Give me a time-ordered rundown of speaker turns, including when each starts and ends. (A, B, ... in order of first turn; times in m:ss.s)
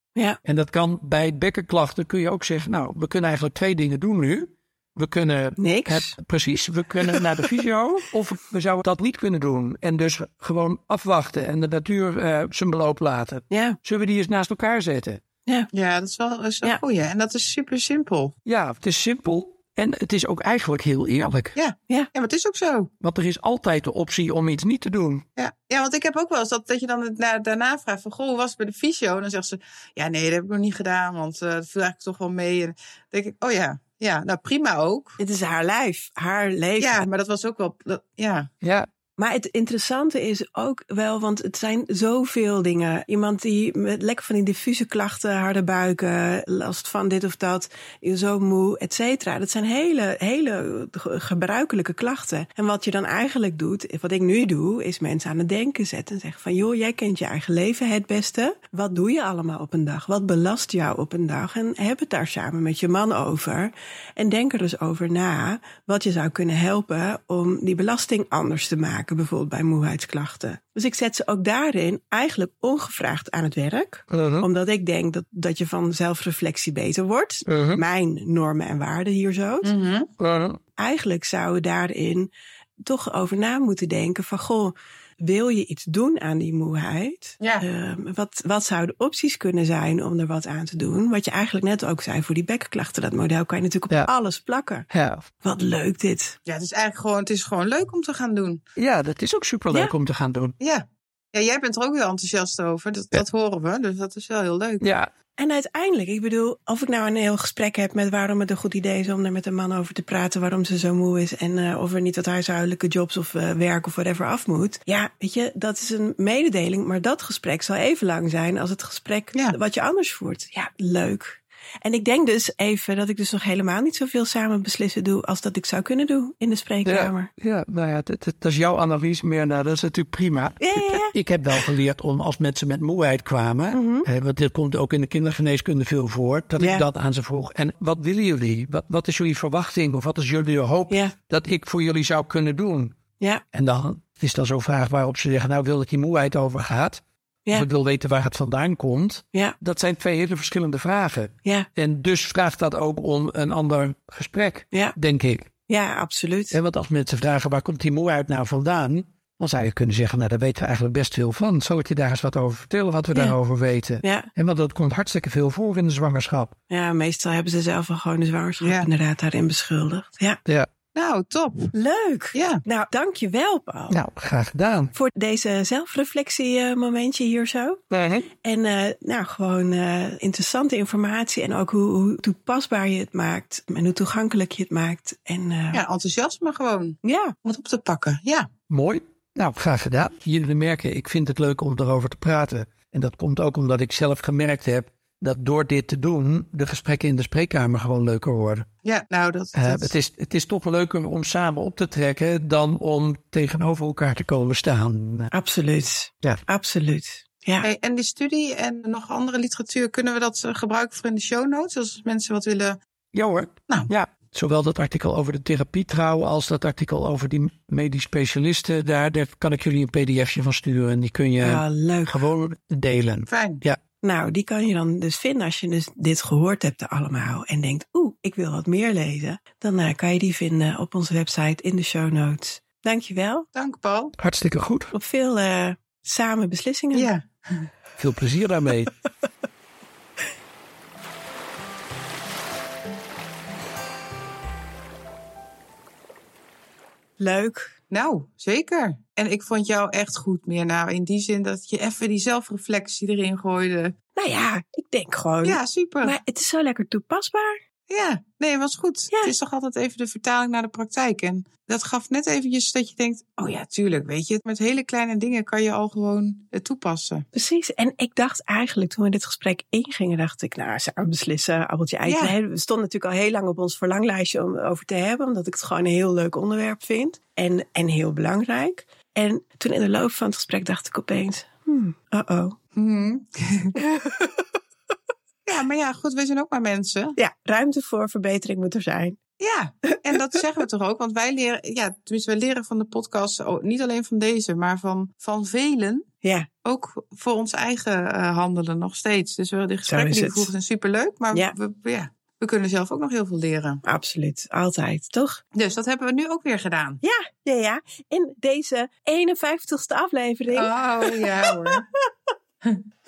0:00.4-0:15.2 A
0:05.6-0:06.2 B
0:13.5-0:13.8 B
0:15.7-0:18.4 C
0:18.5-0:21.5 A
0:21.6-0:22.9 C
0:23.0-0:25.2 A
0:25.4-0:35.2 C
0:35.2-0:37.1 B
0:36.8-0:38.5 C
0:38.6-0:38.9 A
0:39.2-1:19.7 B
1:14.1-1:14.5 A
1:17.5-1:17.8 A
1:19.6-1:20.1 C
1:20.2-1:20.6 A
1:20.8-1:34.9 B
1:34.9-1:35.3 A
1:35.4-1:36.4 B
1:36.5-1:38.6 C
1:38.8-1:40.6 A
1:40.6-1:44.9 C
1:44.8-1:45.1 A
1:45.4-2:07.3 B
2:06.8-2:23.0 A
2:10.6-2:11.1 B
2:13.7-2:14.1 B
2:16.6-2:16.8 B
2:23.5-2:35.5 A
2:35.7-2:36.6 B
2:36.5-2:46.5 A
2:44.0-2:44.3 B
2:46.7-2:50.4 B
2:48.6-2:48.9 C
2:51.0-2:51.7 C
2:51.7-2:54.0 B
2:52.3-2:52.6 C
2:53.9-2:54.9 A
2:54.9-2:57.8 B
2:57.9-2:58.3 A
2:58.4-3:05.8 B
3:05.7-3:08.5 C
3:07.0-3:07.4 B
3:08.7-3:18.7 A
3:18.8-3:19.9 C
3:19.5-3:25.3 A
3:25.3-3:27.7 B
3:27.6-3:32.8 C
3:33.1-3:43.8 A
3:41.4-3:42.2 B
3:43.3-3:43.6 C
3:44.0-3:53.5 B
3:53.6-3:54.1 C
3:54.2-3:54.9 A
3:54.9-3:57.1 B
3:56.9-3:57.7 C
3:58.0-3:58.9 A
4:07.2-4:07.7 B
4:07.9-4:14.0 C
4:14.2-4:17.6 B
4:15.4-4:16.2 C
4:17.9-4:27.3 C
4:19.1-4:19.4 B
4:27.3-4:42.6 B
4:32.0-4:32.4 C
4:42.8-4:43.8 C
4:43.8-4:44.4 B
4:45.5-4:47.2 C
4:47.2-4:49.2 B
4:49.4-4:56.1 C
4:49.9-4:50.2 B
4:56.2-4:56.5 B
4:56.6-5:03.8 C
4:59.9-5:00.5 B
5:03.8-5:05.4 B
5:05.6-5:07.0 C
5:07.0-5:12.0 B
5:10.5-5:11.9 C